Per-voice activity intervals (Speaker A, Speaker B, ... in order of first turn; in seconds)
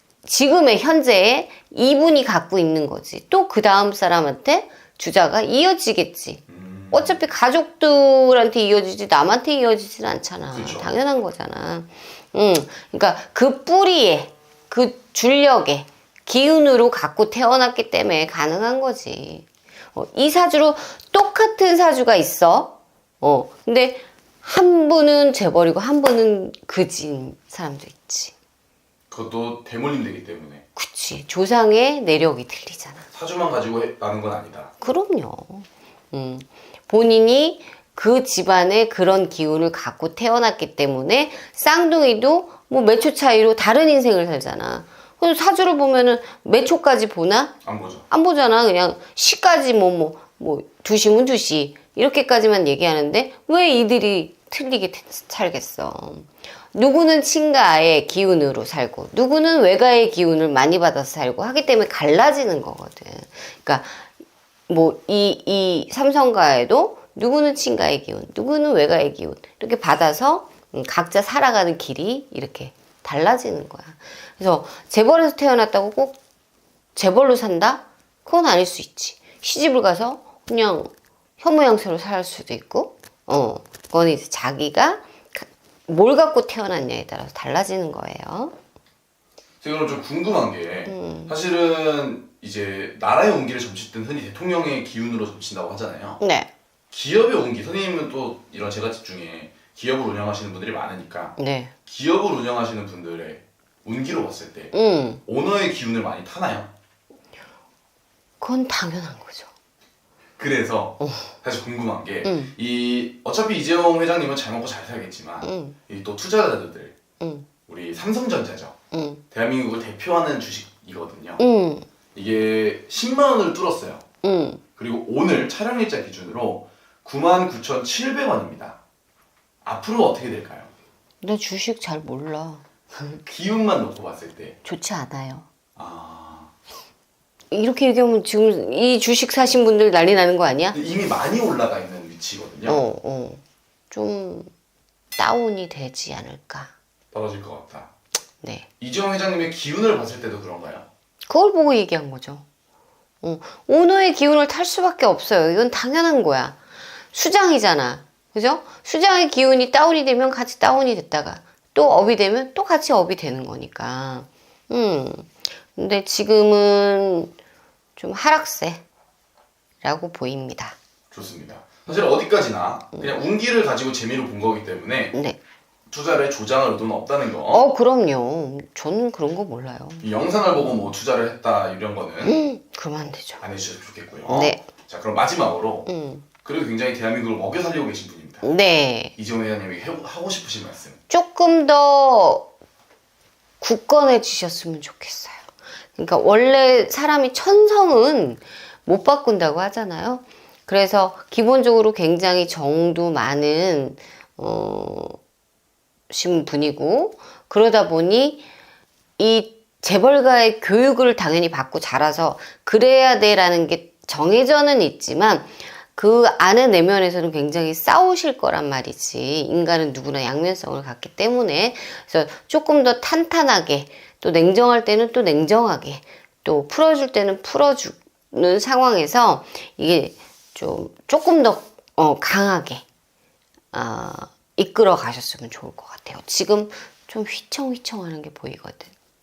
Speaker A: 0.2-28.3, 30.8-33.1, 34.8-47.5, 48.1-64.1, 64.7-76.2, 77.0-88.5, 90.9-91.3, 96.2-96.5, 101.4-101.7, 104.7-105.2, 108.4-109.5, 111.0-111.3, 112.2-112.5, 115.4-115.8, 117.2-117.5, 118.9-119.2, 121.4-121.9, 124.2-124.6, 131.2-133.2, 134.6-135.5, 137.5-140.8, 142.7-144.5, 145.2-146.7, 148.4-148.7, 151.3-152.4, 153.2-156.6, 157.1-167.3, 168.0-168.8, 169.8-170.8, 175.1-175.4, 177.5-180.1, 182.2-183.4, 184.3-184.6, 185.9-186.2, 188.4-189.1, 191.1-192.5, 193.6-205.2, 206.1-208.5, 209.2-232.8, 233.7-238.9
Speaker B: 6.5-7.2, 10.5-10.9, 29.1-30.6, 33.1-34.7, 47.6-48.0, 89.6-96.2, 96.9-101.3, 101.9-104.7, 105.2-106.7, 110.4-117.0, 117.7-118.7, 119.3-121.4, 122.1-124.0, 124.8-128.8, 129.6-130.7, 133.2-134.6, 135.8-136.5, 140.7-142.8, 147.1-147.9, 148.8-150.9, 171.1-175.1, 175.9-177.6, 180.0-182.4, 183.4-185.9, 186.4-188.5, 189.2-191.0